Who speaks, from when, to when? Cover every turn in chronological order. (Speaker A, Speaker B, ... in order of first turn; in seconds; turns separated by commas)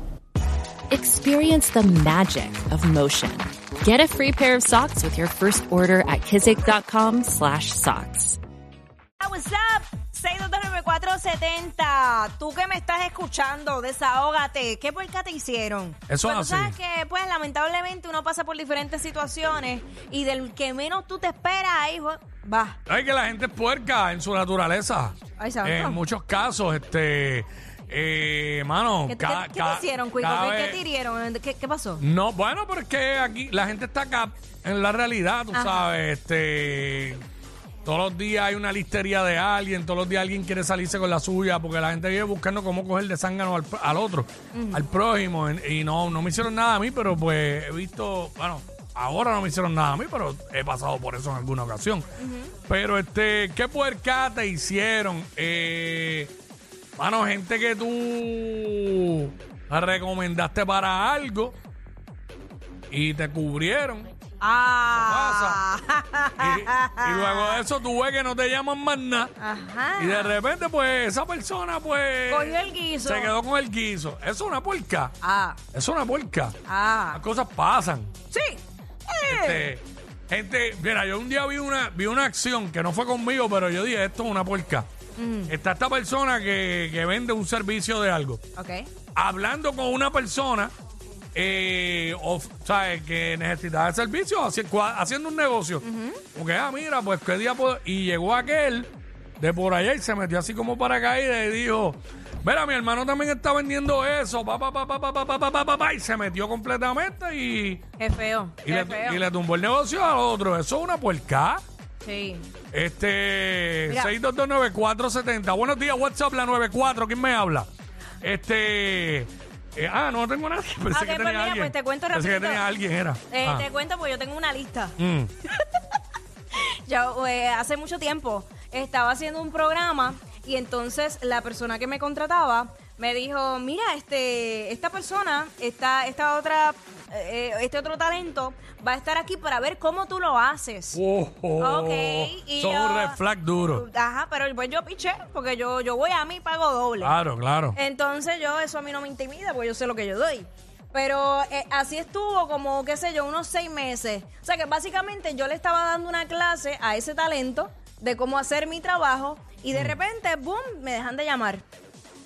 Speaker A: 0.9-8.4, Speaker B: 9.2-22.8, Speaker C: 16.1-16.8, Speaker C: 22.9-30.8, Speaker B: 25.4-26.0, Speaker B: 29.1-32.0, Speaker C: 32.0-37.2, Speaker B: 35.5-35.9, Speaker C: 37.8-52.0, Speaker B: 44.5-44.9, Speaker B: 52.2-52.5, Speaker C: 52.7-56.3, Speaker C: 57.0-61.5, Speaker C: 62.9-64.1, Speaker B: 64.4-67.6, Speaker C: 64.9-65.6, Speaker C: 66.4-69.3, Speaker B: 69.4-70.4, Speaker C: 70.0-75.1, Speaker B: 72.3-73.3, Speaker B: 75.2-75.6, Speaker C: 75.7-76.6, Speaker B: 76.7-77.2, Speaker C: 77.1-78.1, Speaker B: 78.3-79.7, Speaker C: 79.2-84.9, Speaker B: 85.2-85.5, Speaker C: 85.5-88.4, Speaker B: 88.5-88.9, Speaker C: 89.1-90.7, Speaker C: 91.3-107.8, Speaker B: 95.8-96.2, Speaker B: 108.0-109.2, Speaker C: 108.6-111.6, Speaker B: 112.0-112.5, Speaker C: 112.7-117.7, Speaker C: 118.2-123.7, Speaker B: 120.9-122.7, Speaker B: 123.3-125.0, Speaker C: 125.0-125.3, Speaker B: 126.5-141.0, Speaker C: 140.9-143.8, Speaker B: 141.6-147.1, Speaker C: 147.0-147.8, Speaker B: 147.7-161.6, Speaker C: 159.7-160.0